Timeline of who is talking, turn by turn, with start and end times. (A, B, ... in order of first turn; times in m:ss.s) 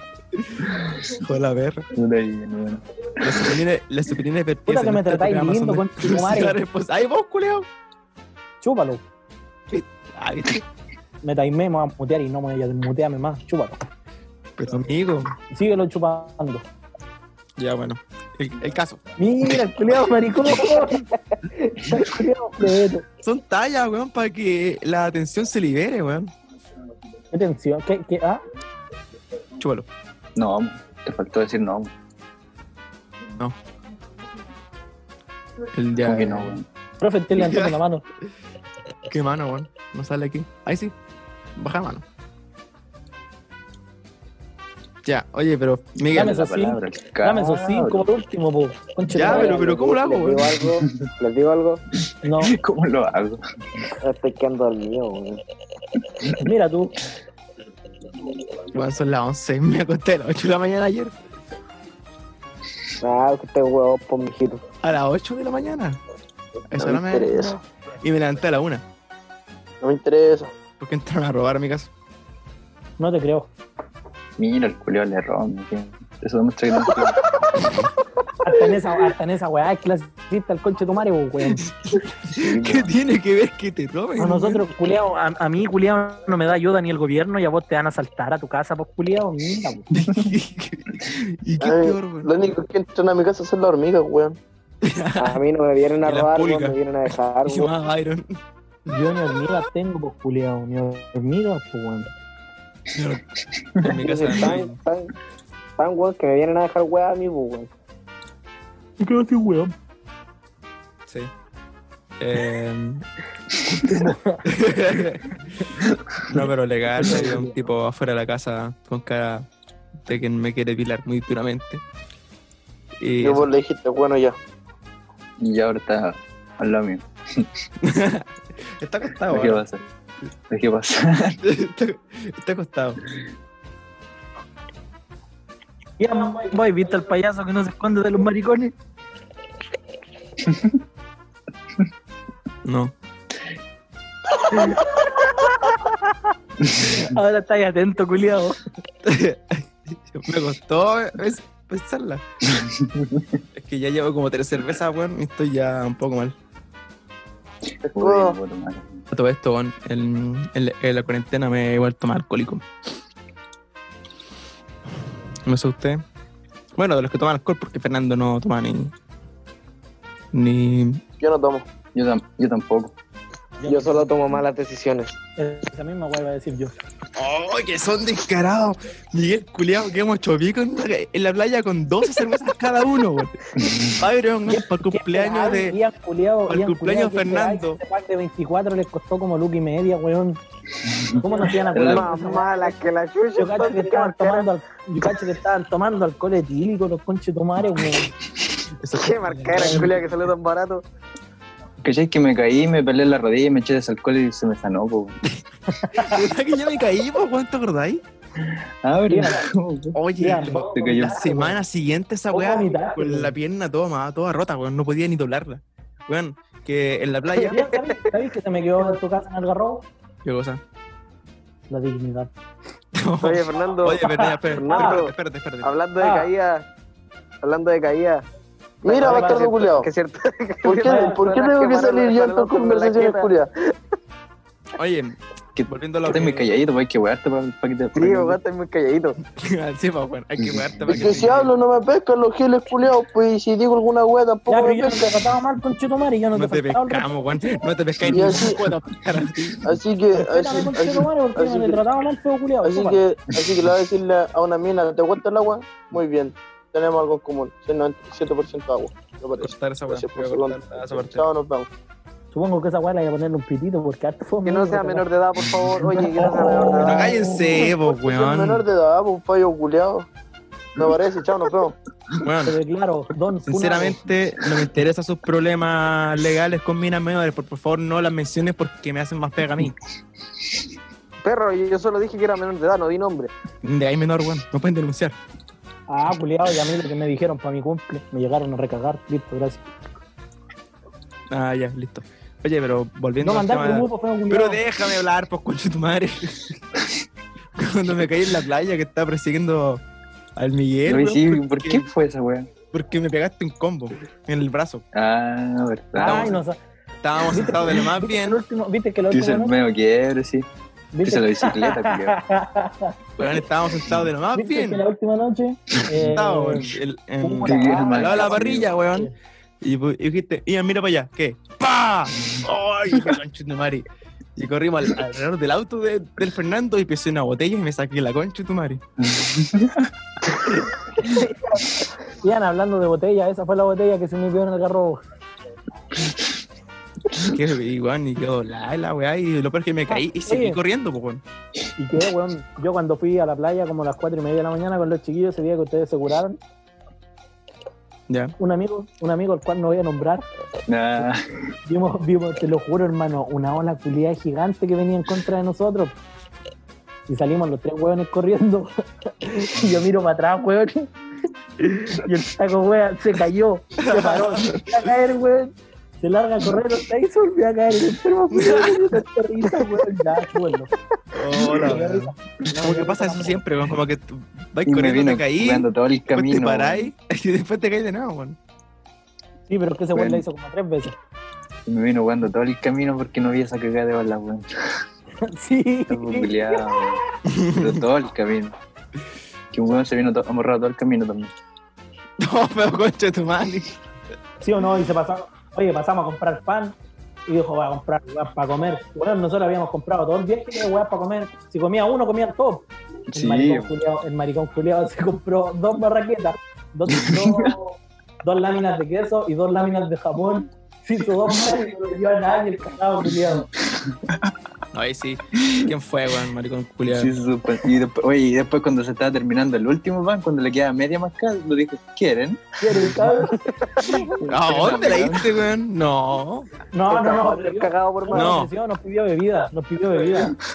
0:00.3-0:01.8 A
0:01.9-0:03.5 B
0:03.2-0:07.7 A
0:04.7-0:06.6 C
0:08.6-0:09.0 C
0:09.7-0:10.6 A
0:11.2-0:13.8 C
0:14.6-0:15.3 A
0:15.5-0:16.6 C
0:17.6-0:19.0 A
0:19.2-0:21.0 C
0:21.6-0:23.0 C
0:23.2-0:26.3 A
0:27.3-0:28.4 C
0:29.6-0:29.9 A
0:30.3-0:31.9 B
0:35.7-0:36.6 A
0:36.0-0:36.6 B
0:37.0-0:38.0 C
0:37.4-0:37.8 A
0:39.1-0:40.9 A
0:41.6-0:42.0 A
0:45.0-0:46.3 A
0:46.1-0:48.1 B
0:46.1-0:49.6 C
0:49.1-0:50.5 A
0:49.2-0:51.8 D
0:52.2-0:52.6 C
0:52.3-0:53.4 B
0:54.0-0:55.4 D
0:56.4-0:56.9 C
0:58.7-1:01.1 A
1:03.0-1:04.6 D
1:04.8-1:06.0 A
1:06.7-1:08.8 A
1:06.8-1:07.6 E
1:09.8-1:10.5 E
1:10.8-1:11.9 A
1:13.0-1:13.5 C
1:14.4-1:17.2 B
1:18.4-1:21.6 C
1:21.5-1:24.6 A
1:22.3-1:22.9 B
1:24.2-1:29.9 C
1:30.0-1:32.3 A
1:31.6-1:34.4 E
1:34.8-1:35.4 A
1:35.2-1:37.7 D
1:36.0-1:36.8 A
1:37.4-1:38.3 A
1:38.9-1:42.1 C
1:42.9-1:43.2 A
1:43.8-1:44.8 A
1:44.0-1:45.1 D
1:45.8-1:47.7 D
1:49.0-1:49.7 C
1:52.2-1:53.0 A
1:53.6-1:53.9 A
1:53.8-1:54.4 C
1:54.4-1:55.6 A
1:56.2-1:59.4 A
1:57.0-1:57.6 C
2:00.0-2:01.8 A
2:03.0-2:03.5 A
2:03.2-2:04.4 E
2:05.4-2:07.5 B
2:07.8-2:08.3 A
2:08.8-2:09.6 A
2:09.3-2:09.8 B
2:10.5-2:11.4 B
2:11.4-2:13.0 A
2:16.0-2:18.7 C
2:20.4-2:20.7 B
2:22.6-2:22.9 A
2:24.5-2:26.1 C
2:26.6-2:27.0 B
2:26.8-2:28.6 C
2:29.0-2:32.2 A
2:32.5-2:33.3 B
2:33.5-2:36.4 A
2:37.8-2:39.0 B
2:37.9-2:38.4 E
2:39.1-2:42.6 A
2:45.4-2:46.0 A
2:46.8-2:48.9 A
2:50.3-2:51.0 A
2:51.2-2:51.6 E
2:51.9-2:53.0 B
2:53.6-2:54.1 C
2:53.7-2:55.2 D
2:55.4-2:56.7 C
2:57.2-3:03.4 A
3:03.6-3:04.0 B
3:04.0-3:05.8 A
3:04.4-3:10.4 C
3:06.5-3:07.8 A
3:10.8-3:12.1 B
3:11.2-3:12.7 C
3:11.7-3:14.5 D
3:13.4-3:18.1 C
3:18.8-3:20.1 A
3:18.9-3:20.8 D
3:21.8-3:25.2 B
3:25.7-3:26.2 C
3:26.0-3:28.0 A
3:28.4-3:30.0 B
3:29.1-3:29.4 C
3:30.0-3:37.7 A
3:30.2-3:31.4 C
3:30.6-3:31.5 B
3:32.3-3:33.3 C
3:37.4-3:37.9 D
3:37.4-3:39.8 C
3:40.2-3:40.6 A
3:41.7-3:42.3 C
3:43.0-3:45.7 A
3:43.2-3:46.6 D
3:44.1-3:45.0 C
3:46.0-3:46.3 C
3:47.4-3:48.2 D
3:48.8-3:49.9 E
3:48.8-3:53.3 D
3:49.0-3:49.5 C
3:50.6-3:53.5 E
3:50.8-3:51.2 C
3:54.8-3:56.5 A
3:55.6-3:58.4 B
3:58.0-3:59.2 D
3:59.4-4:01.5 A
4:00.4-4:01.2 B
4:00.9-4:05.1 E
4:04.5-4:07.6 C
4:06.3-4:09.6 A
4:08.1-4:08.6 E
4:09.6-4:11.8 E
4:10.1-4:13.0 C
4:12.6-4:21.7 E
4:19.4-4:21.3 A
4:22.3-4:25.0 C
4:24.4-4:27.2 D
4:25.4-4:27.1 B
4:26.8-4:28.6 A
4:27.3-4:30.1 E
4:30.8-4:31.8 E
4:32.2-4:32.6 A
4:32.4-4:34.0 C
4:33.4-4:39.8 A
4:41.2-4:43.3 D
4:43.6-4:45.2 A
4:45.9-4:49.7 C
4:51.3-4:56.6 A
4:53.2-4:54.6 C
4:57.6-4:59.8 A
5:00.4-5:01.8 A
5:00.8-5:02.5 B
5:02.7-5:04.8 A
5:04.9-5:06.4 B
5:06.0-5:06.6 C
5:06.0-5:06.4 A
5:07.0-5:08.4 A
5:07.2-5:09.5 C
5:09.1-5:10.5 B
5:10.9-5:12.9 C
5:11.0-5:12.2 B
5:13.2-5:14.8 A
5:14.3-5:19.1 C
5:16.0-5:19.1 A
5:17.4-5:18.7 B
5:19.6-5:28.8 A
5:29.0-5:29.9 B
5:31.0-5:35.0 C
5:37.2-5:41.2 A
5:39.9-5:40.6 C
5:41.8-5:46.4 C
5:48.1-5:48.3 A
5:48.4-5:50.2 C
5:50.7-5:51.2 B
5:51.6-5:56.0 C
5:57.1-6:00.9 C
6:01.7-6:02.0 A
6:01.8-6:10.7 C
6:03.8-6:04.9 A
6:08.3-6:08.9 A
6:11.1-6:18.4 A
6:11.4-6:13.4 C
6:14.6-6:16.9 B
6:19.5-6:21.0 C
6:19.9-6:20.2 B
6:21.7-6:24.8 B
6:25.2-6:26.8 C
6:25.9-6:28.6 B
6:27.3-6:27.8 A
6:29.5-6:31.3 B
6:32.2-6:33.8 A
6:34.4-6:36.7 C
6:37.3-6:53.5 C
6:43.1-6:43.8 B
6:46.9-6:47.6 B
6:53.7-6:54.3 B
6:54.7-6:57.1 A
6:56.9-7:03.2 B
7:02.6-7:04.0 C
7:04.2-7:05.4 B
7:04.3-7:06.5 A
7:06.7-7:10.4 C
7:06.9-7:08.3 D
7:08.1-7:08.5 A